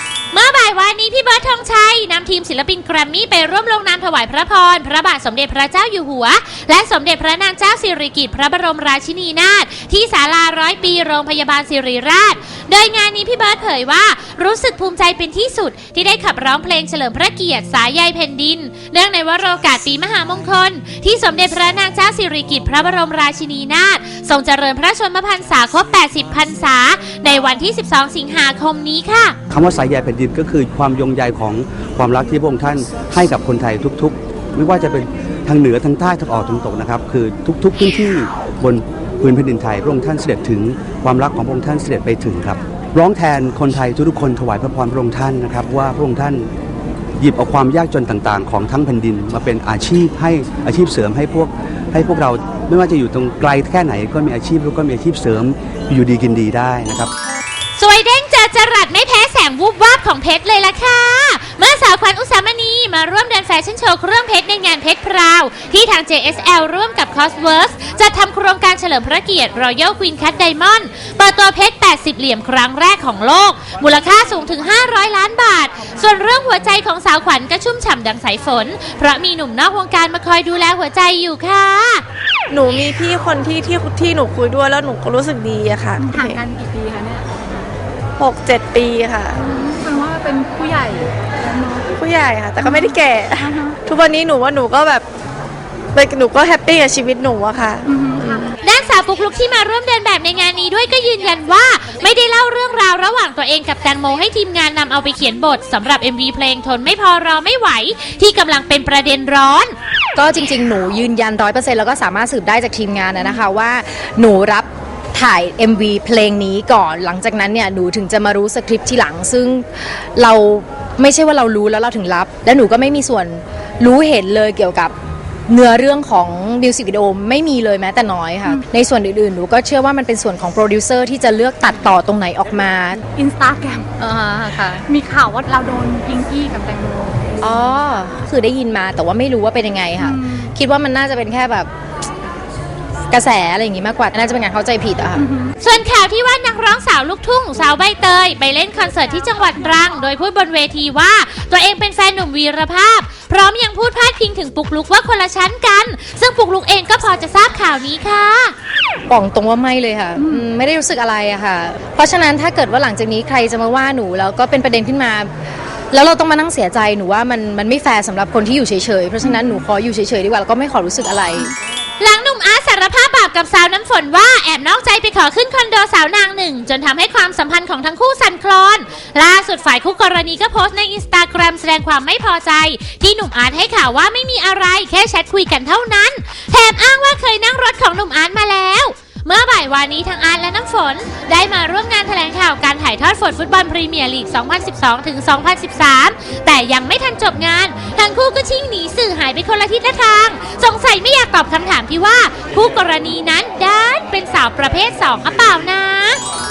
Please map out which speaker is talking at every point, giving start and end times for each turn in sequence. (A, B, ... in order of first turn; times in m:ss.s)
0:00.3-0:29.4 A
0:29.5-0:46.5 B
0:47.2-0:57.1 B
0:57.8-1:22.0 A
1:22.5-1:26.4 C
1:26.0-1:27.3 D
1:28.2-1:29.4 C
1:29.4-1:31.9 D
1:32.0-1:35.0 C
1:32.6-1:32.9 D
1:33.4-1:33.8 D
1:35.9-1:38.5 C
1:37.9-1:38.3 D
1:38.6-1:49.7 A
1:50.2-2:04.9 E
2:05.5-2:13.0 E
2:13.2-2:14.0 D
2:14.0-2:14.8 E
2:14.8-2:17.2 D
2:17.4-2:21.7 E
2:20.0-2:20.4 D
2:23.1-2:25.2 E
2:25.2-2:25.5 D
2:25.6-2:38.5 A
2:39.1-2:45.3 E
2:45.9-2:51.5 E
2:52.0-3:26.2 A